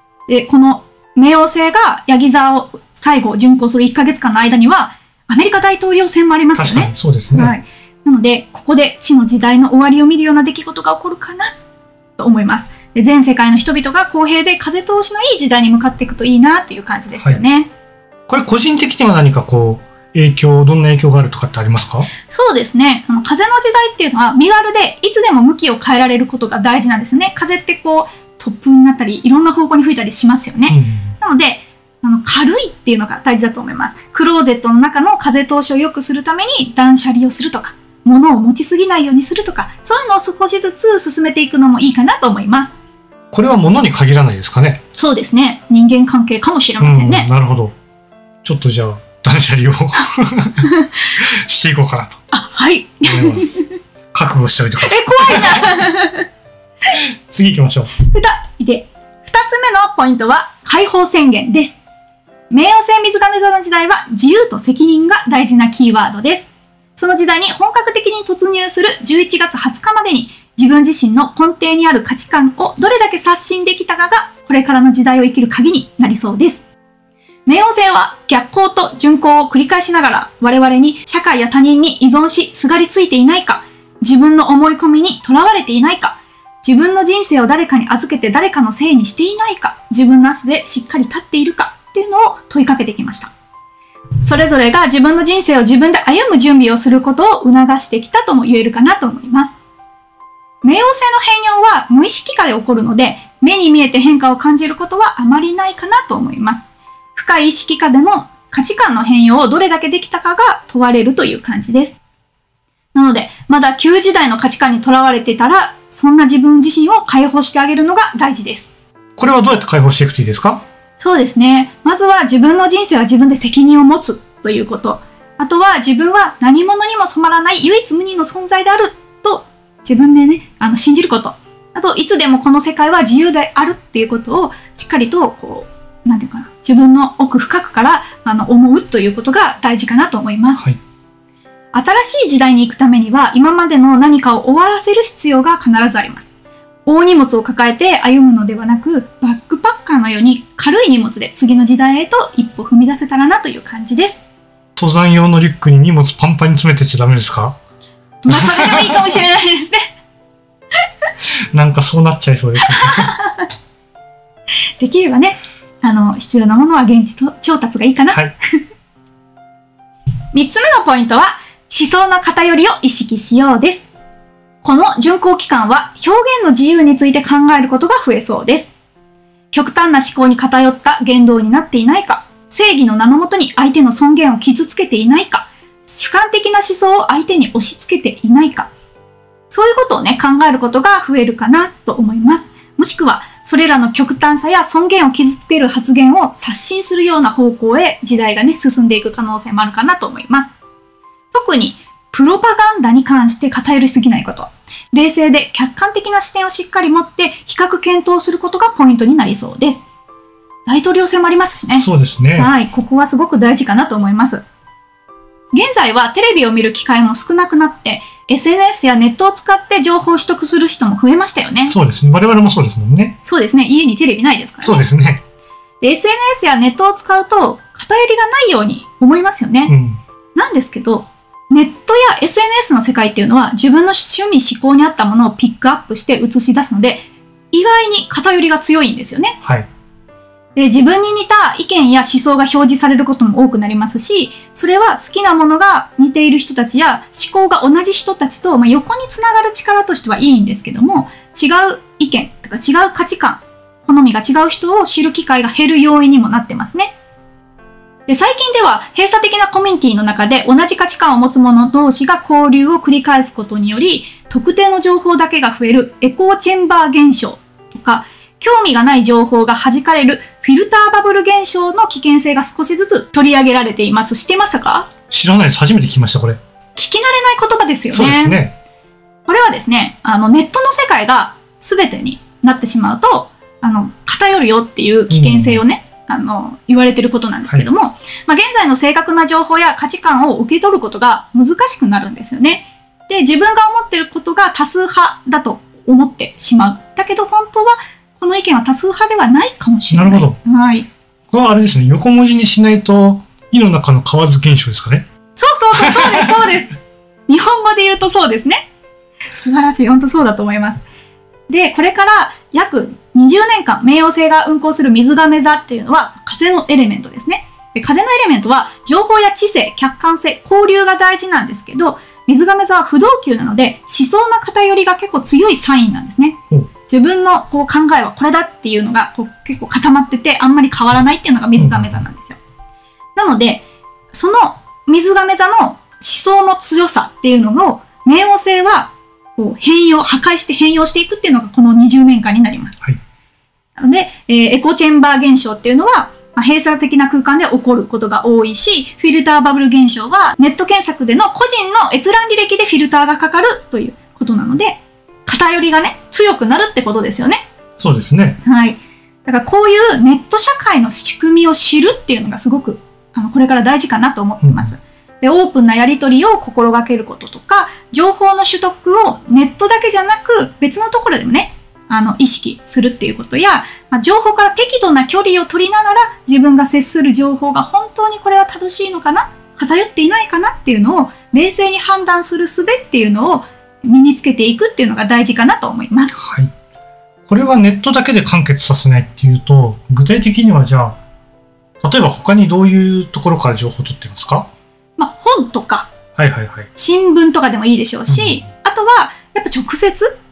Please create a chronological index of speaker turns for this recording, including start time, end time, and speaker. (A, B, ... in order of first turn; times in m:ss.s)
0:00.3-0:11.6 A
0:06.6-0:07.6 B
0:12.2-0:17.7 A
0:18.3-0:22.1 B
0:22.3-0:42.7 A
0:30.7-0:31.1 B
0:43.3-0:44.8 B
0:44.9-0:47.3 A
0:46.8-0:47.8 B
0:48.4-0:52.2 B
0:50.6-0:51.1 A
0:52.3-0:53.7 A
0:53.0-0:55.9 B
0:54.8-0:56.3 A
0:56.9-0:57.9 B
0:58.0-1:01.8 A
1:02.5-1:16.6 A
1:17.5-1:33.3 A
1:34.2-1:39.6 A
1:40.6-1:46.6 A
1:47.2-1:52.0 A
1:52.9-1:58.7 A
1:59.2-2:00.6 B
2:01.0-2:20.6 A
2:21.7-2:26.2 A
2:26.9-2:34.2 A
2:34.8-2:37.6 B
2:38.2-2:39.8 A
2:38.3-2:39.0 B
2:41.5-2:43.1 B
2:42.8-2:43.4 A
2:44.8-2:48.2 A
2:50.3-2:53.9 A
2:54.6-2:58.7 A
2:59.5-3:08.7 A
3:09.5-3:20.5 A
3:21.3-3:29.8 A
3:30.7-3:34.4 A
3:31.8-3:32.5 B
3:35.5-3:41.8 A
3:41.7-3:43.2 B
3:43.2-3:44.8 A
3:44.6-3:45.2 B
3:45.8-3:49.7 A
3:49.7-3:50.0 B
3:50.4-3:59.4 A
4:00.6-4:16.9 A
4:18.1-4:34.9 A
4:35.1-4:36.4 B
4:36.8-4:38.4 A
4:37.9-4:38.5 B
4:39.2-5:00.9 A
4:45.1-4:45.6 B
4:59.9-5:00.4 B
5:01.3-5:05.0 B
5:05.4-5:06.8 A
5:05.8-5:06.4 B
5:07.3-5:08.6 A
5:09.3-5:10.8 A
5:11.5-5:32.4 A
5:31.6-5:32.0 B
5:33.2-5:42.8 A
5:43.8-5:57.4 A
5:57.8-5:58.4 B
5:58.4-6:26.1 A
6:04.4-6:04.7 B
6:26.1-6:26.5 B
6:27.3-6:31.0 B
6:31.8-6:34.5 B
6:35.0-6:35.9 A
6:36.2-6:36.7 B
6:36.8-6:40.1 A
6:38.1-6:38.4 B